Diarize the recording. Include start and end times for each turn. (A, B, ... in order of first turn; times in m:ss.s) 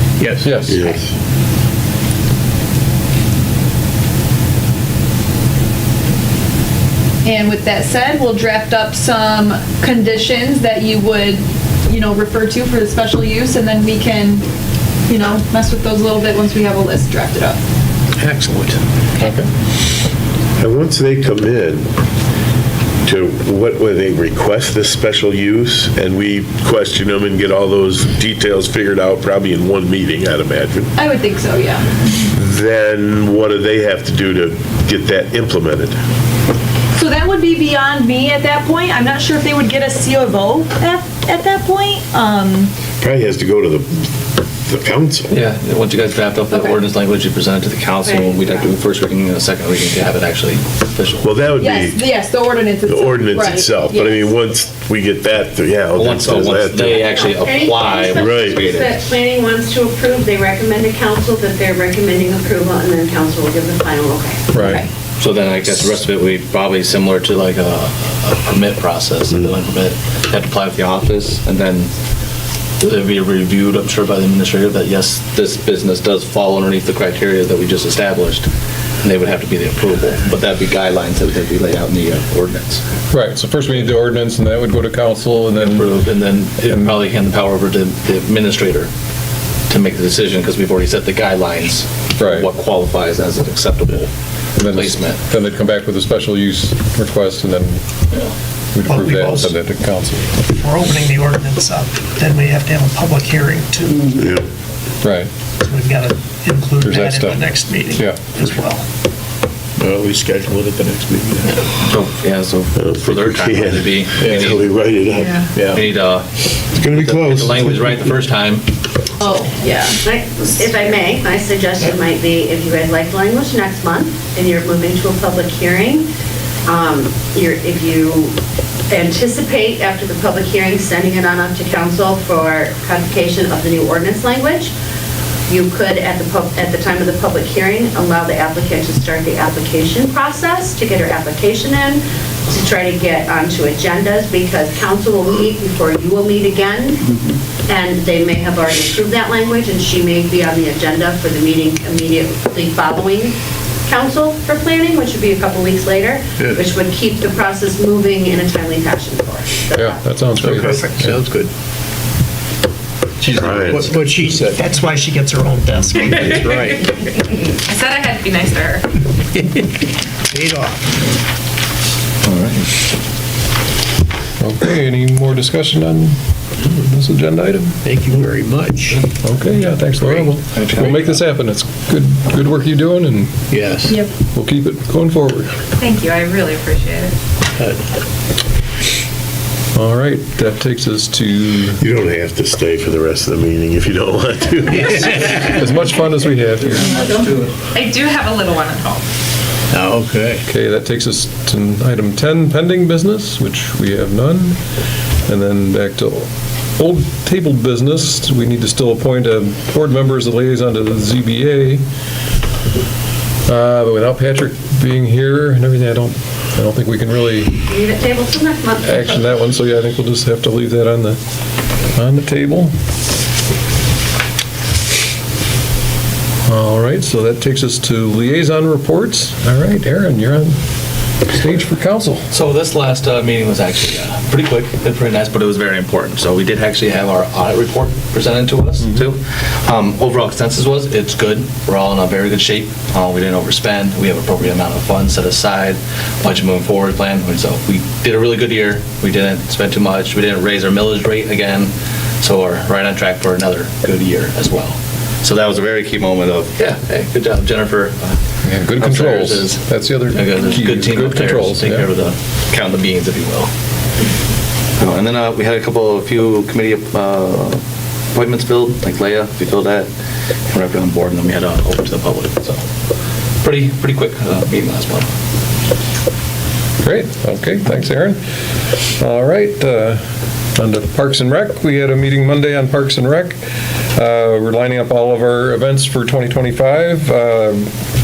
0:00.2-0:00.5 A
0:00.4-0:00.8 B
0:00.7-0:01.0 C
0:00.7-0:01.1 D
0:07.2-0:14.4 C
0:15.1-0:17.6 C
0:18.2-0:18.8 E
0:19.2-0:19.4 B
0:20.6-0:21.9 D
0:23.0-0:30.9 D
0:31.0-0:31.9 C
0:32.3-0:36.0 D
0:36.9-0:42.7 C
0:43.0-0:44.1 D
0:44.7-0:45.3 D
0:45.3-0:51.3 E
0:48.0-0:48.7 F
0:51.2-0:52.0 D
0:51.6-0:54.3 C
0:52.9-0:57.1 D
0:55.9-0:59.0 E
0:56.9-1:04.5 F
0:58.1-0:58.7 D
1:04.5-1:04.8 B
1:04.6-1:04.9 C
1:05.2-1:11.9 E
1:12.8-1:18.5 E
1:19.0-1:22.8 E
1:23.1-1:25.9 B
1:25.6-1:28.9 E
1:26.6-1:27.0 B
1:29.7-1:34.1 E
1:32.2-1:32.5 B
1:34.6-1:37.8 B
1:34.6-1:35.2 E
1:38.7-1:40.4 B
1:38.9-1:39.6 G
1:40.5-1:44.0 G
1:44.2-1:44.4 D
1:45.0-1:45.3 B
1:45.6-1:48.8 G
1:46.8-1:47.4 B
1:47.9-1:48.3 B
1:49.8-1:51.7 A
1:51.9-1:54.7 E
1:52.8-1:55.5 D
1:54.2-1:54.6 A
1:55.5-1:55.9 A
1:55.7-1:58.7 E
1:56.8-1:58.2 D
1:59.2-2:00.0 C
2:00.0-2:06.1 F
2:06.7-2:08.3 F
2:08.9-2:14.7 F
2:15.5-2:27.1 F
2:27.7-2:33.3 F
2:33.9-2:40.0 F
2:39.7-2:41.2 B
2:40.4-2:41.5 A
2:43.2-2:44.7 A
2:43.4-2:44.0 D
2:44.1-2:46.3 G
2:46.0-2:46.9 H
2:46.3-2:46.8 A
2:47.5-2:49.0 H
2:50.3-2:50.8 G
2:52.2-2:52.8 E
2:54.4-2:56.2 B
2:56.7-2:57.8 B
2:57.8-2:59.0 A
2:58.9-3:01.2 E
2:59.2-3:03.4 B
3:03.5-3:04.0 A
3:04.3-3:05.5 B
3:05.8-3:07.2 H
3:09.8-3:11.8 B
3:11.8-3:15.5 D
3:14.9-3:15.5 A
3:15.4-3:17.0 B
3:16.7-3:19.0 H
3:17.0-3:17.4 E
3:19.7-3:20.4 A
3:20.5-3:24.6 B
3:25.3-3:31.8 B
3:33.5-3:37.5 B
3:37.6-3:39.2 F
3:38.8-3:41.2 B
3:42.0-3:42.7 B
3:46.5-3:50.6 B
3:51.3-3:52.2 B
3:52.3-4:18.2 E
3:58.8-3:59.1 B
4:18.4-4:21.9 B
4:18.7-4:23.5 E
4:24.8-4:27.6 E
4:28.1-4:29.9 E
4:30.5-4:32.6 E
4:33.4-4:35.1 E
4:36.8-4:38.2 B
4:39.0-4:40.0 B
4:40.6-4:43.4 B
4:44.0-4:47.7 B